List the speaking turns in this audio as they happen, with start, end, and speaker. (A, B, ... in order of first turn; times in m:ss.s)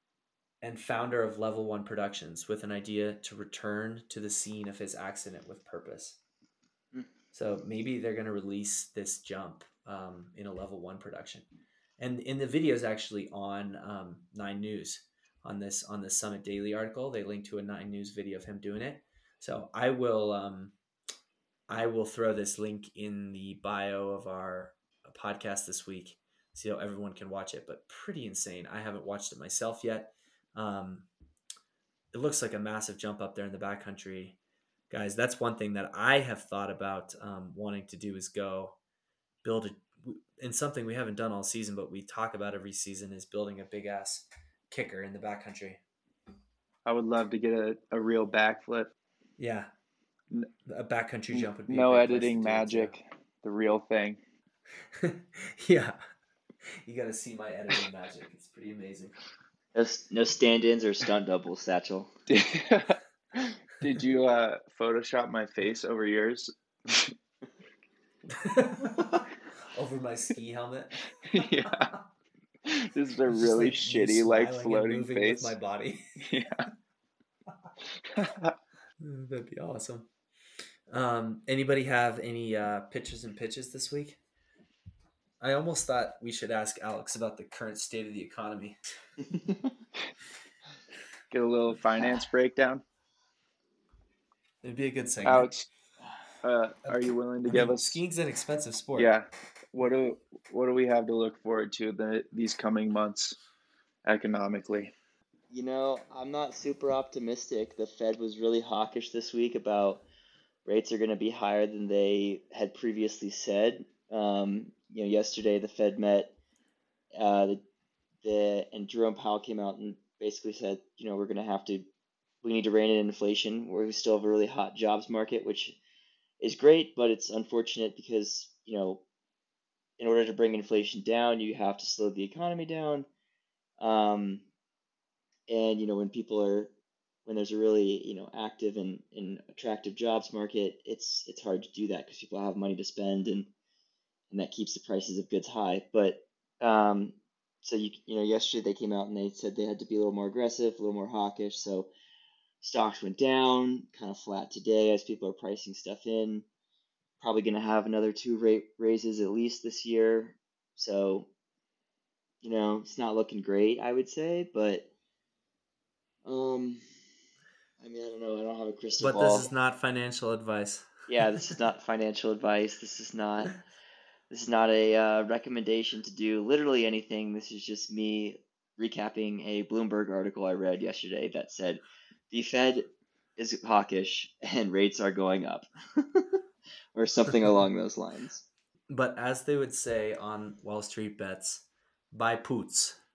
0:00.6-0:06.2 A
0:07.3-0:11.4 A
0:12.0-0:20.8 A
0:21.7-0:31.1 A
0:32.1-0:34.4 A
0:34.9-0:38.8 A
0:39.4-0:45.8 A
0:46.8-0:48.9 B
0:49.4-0:49.7 A
0:50.6-0:53.0 A
0:51.3-0:54.2 B
0:55.0-0:56.0 A
0:56.8-0:59.1 A
0:59.7-1:02.1 C
1:02.3-1:07.1 B
1:08.3-1:12.0 A
1:11.3-1:11.9 B
1:12.6-1:15.6 B
1:13.3-1:16.2 A
1:16.2-1:16.6 B
1:18.1-1:18.5 B
1:19.0-1:20.1 A
1:20.9-1:24.2 A
1:25.4-1:28.8 A
1:29.3-1:29.7 C
1:31.3-1:32.8 B
1:34.6-1:35.5 A
1:35.2-1:35.7 B
1:36.4-1:38.0 B
1:36.8-1:39.1 A
1:38.9-1:43.4 B
1:44.0-1:44.9 B
1:45.5-1:50.0 C
1:50.6-1:56.3 C
1:57.2-1:57.6 C
1:58.2-2:01.9 C
2:02.4-2:05.8 C
2:06.4-2:09.0 C
2:10.0-2:13.1 C
2:13.8-2:14.4 C
2:15.5-2:16.7 C
2:17.2-2:23.5 C
2:24.3-2:31.9 C
2:32.6-2:36.4 C
2:37.2-2:41.3 C
2:42.4-2:44.9 C
2:46.2-2:46.8 C
2:47.8-2:49.5 C
2:49.0-2:51.5 A
2:51.1-2:53.6 C
2:54.3-3:06.4 C
3:06.9-3:08.4 C
3:08.9-3:13.0 A